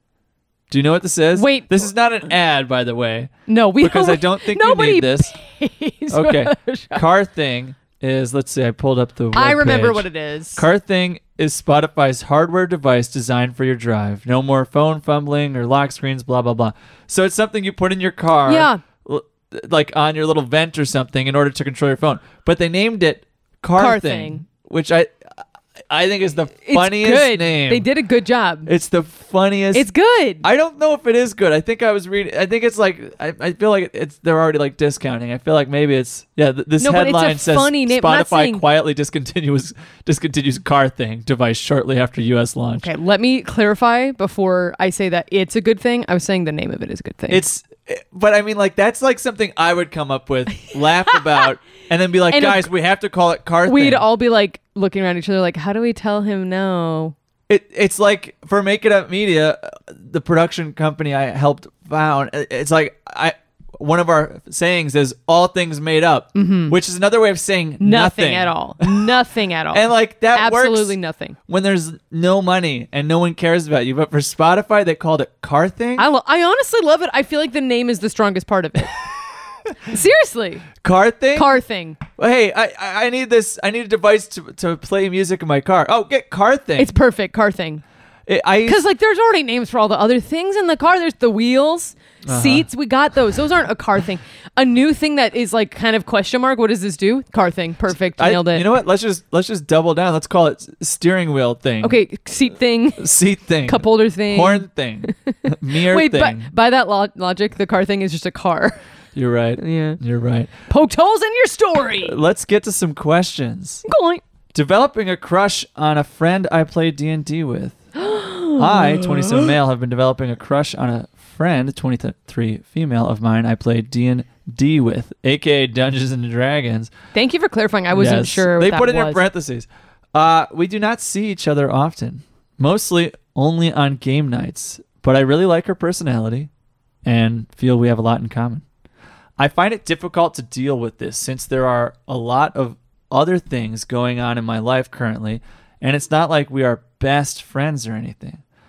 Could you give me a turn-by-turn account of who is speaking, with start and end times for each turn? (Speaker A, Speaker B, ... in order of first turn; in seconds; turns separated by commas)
Speaker A: 0.7-5.3, Speaker B: 1.3-1.9, Speaker B: 3.5-7.0, Speaker A: 6.1-27.9, Speaker B: 9.3-10.6, Speaker B: 18.5-18.8, Speaker B: 23.8-24.4, Speaker B: 26.6-28.7, Speaker A: 28.7-29.9, Speaker B: 29.7-30.5, Speaker A: 30.4-42.9, Speaker B: 36.8-38.7, Speaker B: 42.8-47.4, Speaker A: 47.3-54.0, Speaker B: 52.3-52.7, Speaker B: 53.6-57.2, Speaker A: 57.5-69.1, Speaker B: 66.3-66.8, Speaker B: 67.8-71.4, Speaker A: 69.7-71.0, Speaker A: 71.5-76.1, Speaker B: 76.0-78.9, Speaker B: 79.8-80.7, Speaker A: 80.8-81.5, Speaker B: 81.3-82.0, Speaker A: 82.1-86.9, Speaker B: 86.8-87.8, Speaker A: 88.3-88.8, Speaker B: 88.6-98.7, Speaker A: 92.3-92.7, Speaker A: 98.2-102.0, Speaker B: 101.8-108.8, Speaker A: 103.0-106.5, Speaker A: 109.2-110.5, Speaker B: 109.6-110.0, Speaker B: 110.7-112.2, Speaker A: 112.0-113.8, Speaker B: 113.8-114.2, Speaker A: 114.5-117.8, Speaker B: 118.0-119.6, Speaker A: 118.6-126.9, Speaker B: 127.1-129.2, Speaker A: 127.9-136.5, Speaker A: 137.1-138.7, Speaker A: 139.4-148.4